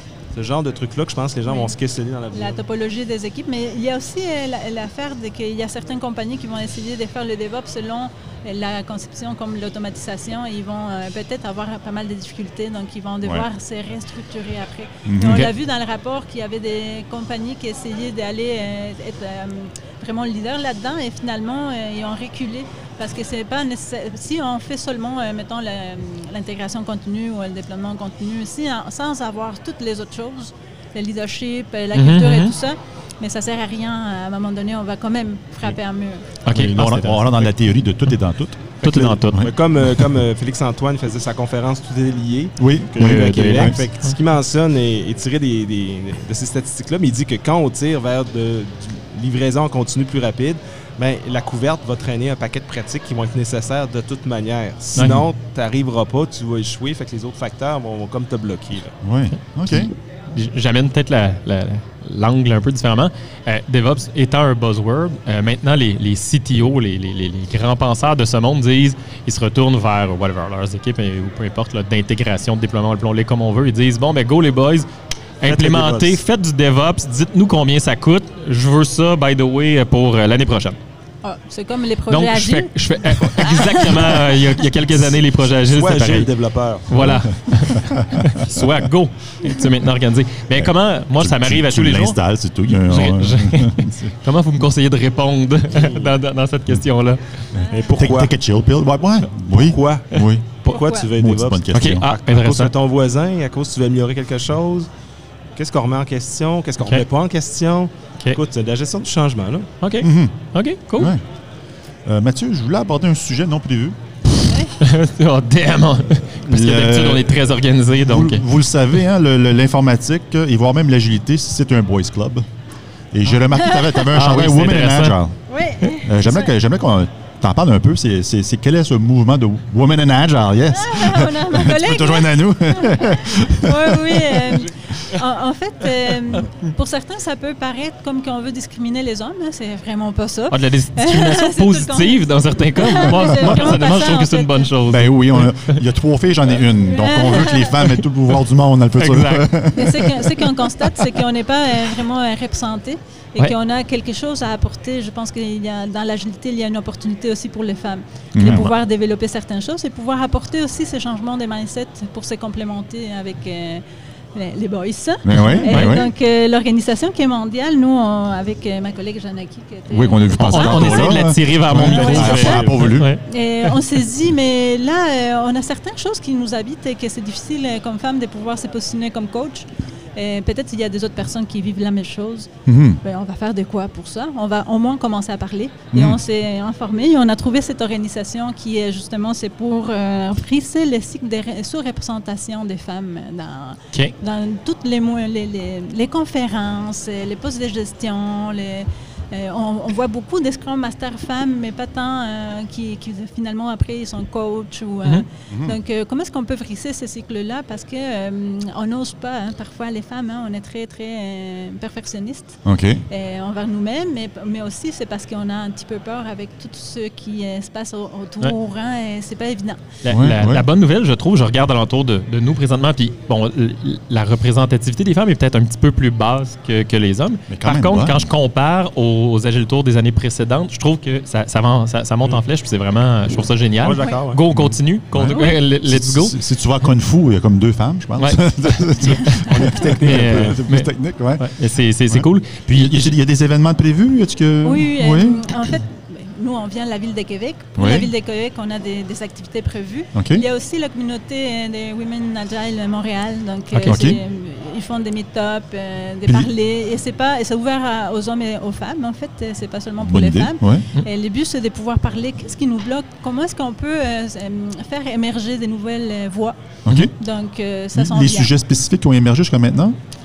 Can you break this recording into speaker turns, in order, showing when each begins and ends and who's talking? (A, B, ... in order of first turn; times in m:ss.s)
0:00.3-0:02.6 A
0:01.5-0:01.8 B
0:02.3-0:36.3 B
0:15.1-0:15.5 C
0:31.9-0:32.5 D
0:36.4-0:37.5 D
0:36.5-0:39.5 C
0:38.8-0:39.5 D
0:38.8-0:59.0 A
0:42.6-0:43.8 C
0:43.0-0:44.1 D
0:55.0-0:55.2 D
0:59.0-0:59.9 C
0:59.3-1:14.9 D
1:15.4-1:20.8 D
1:15.5-1:16.2 A
1:21.2-1:24.2 B
1:22.1-1:26.3 D
1:24.9-1:27.2 A
1:26.9-1:32.2 D
1:27.0-1:28.7 C
1:30.6-1:34.1 C
1:32.7-1:37.5 D
1:35.7-1:36.2 A
1:37.5-1:40.5 C
1:37.6-1:38.0 B
1:37.7-1:38.3 A
1:39.5-1:44.9 A
1:40.7-1:41.1 B
1:41.1-1:42.1 C
1:41.7-1:42.7 D
1:45.6-1:49.7 A
1:49.8-1:51.1 D
1:50.0-1:50.4 C
1:51.0-1:51.2 C
1:52.1-1:54.0 C
1:54.5-1:54.7 B
1:54.8-1:58.4 D
1:56.2-2:02.4 C
2:03.1-2:05.4 C
2:03.5-2:04.0 B
2:04.1-2:05.2 D
2:05.5-2:06.5 B
2:05.9-2:14.7 C
2:10.7-2:24.7 B
2:20.5-2:25.8 D
2:23.3-2:23.7 C
2:24.9-2:30.5 C
2:26.8-2:27.8 B
2:29.0-2:29.6 D
2:29.7-2:43.8 B
2:38.4-2:38.7 C
2:44.3-3:02.5 B
2:45.2-2:46.1 C
2:45.4-2:46.0 D
2:49.9-2:53.1 C
2:50.4-2:53.7 D
3:02.7-3:03.0 C
3:03.0-3:39.8 B
3:05.9-3:06.2 C
3:25.5-3:25.8 C
3:32.6-3:33.0 C
3:40.0-3:56.4 D
3:40.1-3:40.7 C
3:47.5-3:48.2 C
3:53.8-3:54.4 A
3:53.9-3:54.2 B
3:54.5-4:01.5 C
3:55.3-3:55.6 B
3:58.2-4:03.2 D
3:59.4-4:00.6 A
4:02.1-4:05.7 C
4:04.6-4:28.5 B
4:07.8-4:08.1 C
4:10.2-4:10.4 C
4:13.8-4:14.0 D
4:13.8-4:14.2 C
4:20.0-4:20.9 C
4:26.8-4:27.1 C
4:27.9-4:30.0 C